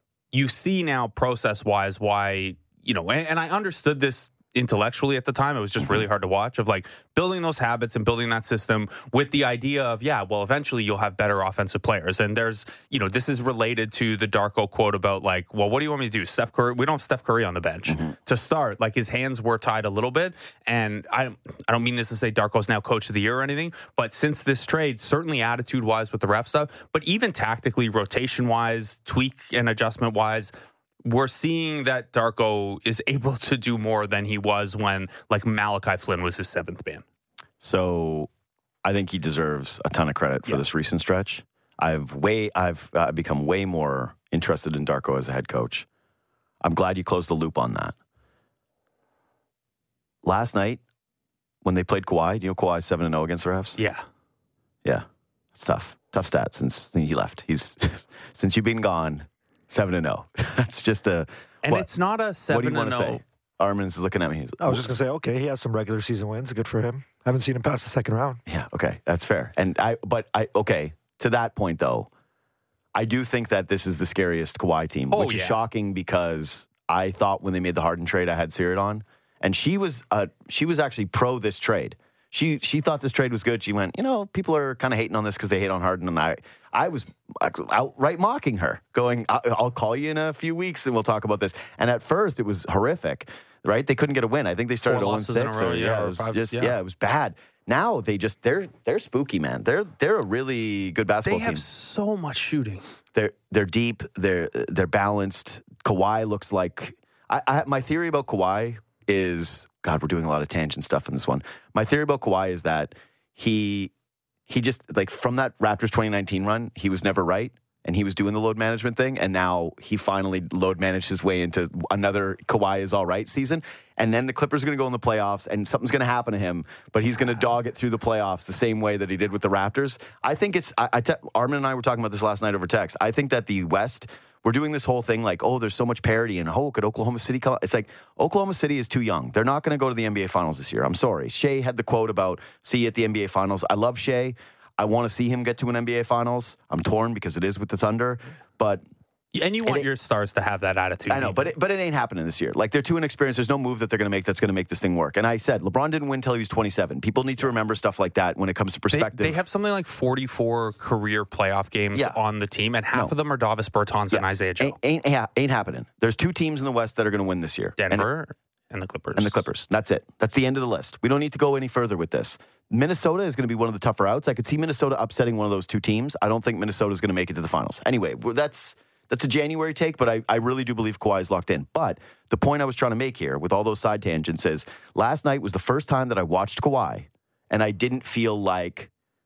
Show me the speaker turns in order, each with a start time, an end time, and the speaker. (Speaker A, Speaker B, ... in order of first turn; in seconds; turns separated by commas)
Speaker A: 0.3-30.5, Speaker B: 17.9-18.1, Speaker A: 31.0-37.0, Speaker B: 37.6-38.3, Speaker B: 38.8-45.9, Speaker B: 46.6-47.9, Speaker B: 50.2-50.8, Speaker B: 51.6-53.8, Speaker A: 53.8-54.0, Speaker B: 54.8-61.9, Speaker A: 61.6-63.2, Speaker B: 62.5-64.9, Speaker C: 64.6-68.4, Speaker B: 68.5-72.1, Speaker B: 72.9-101.6, Speaker A: 75.1-75.6, Speaker A: 94.9-96.8, Speaker A: 101.2-102.8, Speaker B: 103.1-113.9, Speaker B: 114.5-148.8, Speaker A: 149.3-151.5, Speaker B: 151.1-159.4, Speaker A: 158.9-164.8, Speaker B: 164.1-168.1, Speaker A: 167.8-169.4, Speaker B: 169.2-188.9